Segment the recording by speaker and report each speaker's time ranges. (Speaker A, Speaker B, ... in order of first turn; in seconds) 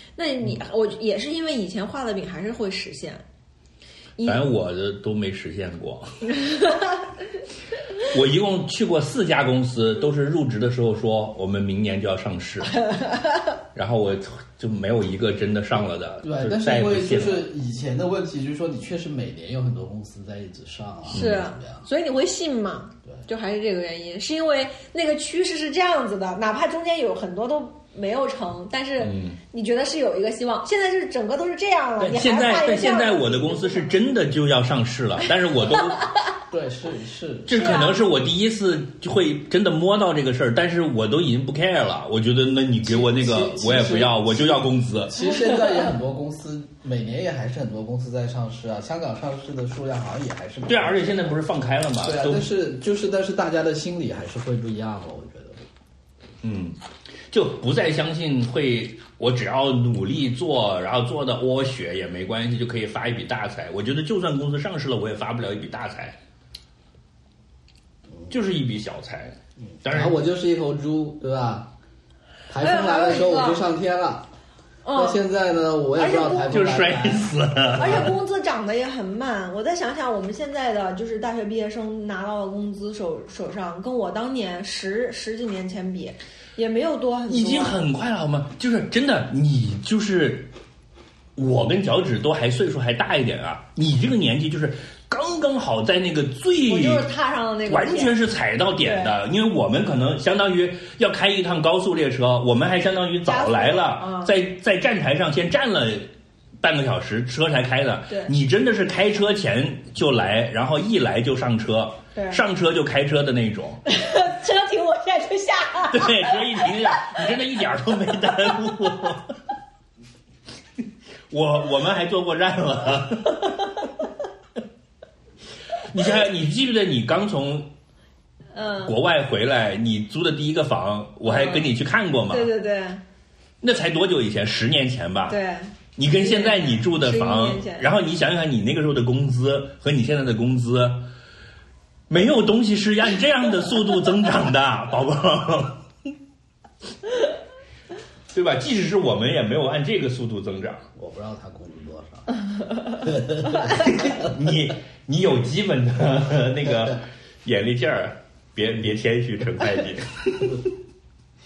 Speaker A: 0.2-3.2, 4.2-4.4, 6.4-6.9, 12.8-13.4, 21.1-34.0, 37.5-38.0, 72.6-73.6, 74.8-75.2, 76.0-76.6, 77.8-87.8, 96.7-98.2, 98.8-99.1, 103.2-104.3, 112.1-112.4, 113.8-117.2, 128.5-128.9, 131.2-131.7, 132.3-133.0, 135.3-137.9
Speaker B: 4.2-6.3, 8.0-12.8, 13.7-17.5, 21.1-21.4, 29.0-29.4, 32.0-36.0, 37.5-45.4, 50.6-52.5, 56.4-66.2, 68.3-70.1, 76.5-78.2, 87.3-90.5, 91.3-97.1, 97.7-106.1, 106.6-113.8, 115.9-119.3, 121.3-123.8, 125.8-127.7, 128.8-132.5, 133.6-135.4, 135.9-141.1, 142.1-145.8, 148.3-150.8, 153.6-160.6
Speaker C: 16.2-21.9, 36.5-37.8, 42.8-51.4, 52.0-55.6, 69.8-71.7, 72.5-74.3, 74.9-78.2, 150.9-154.3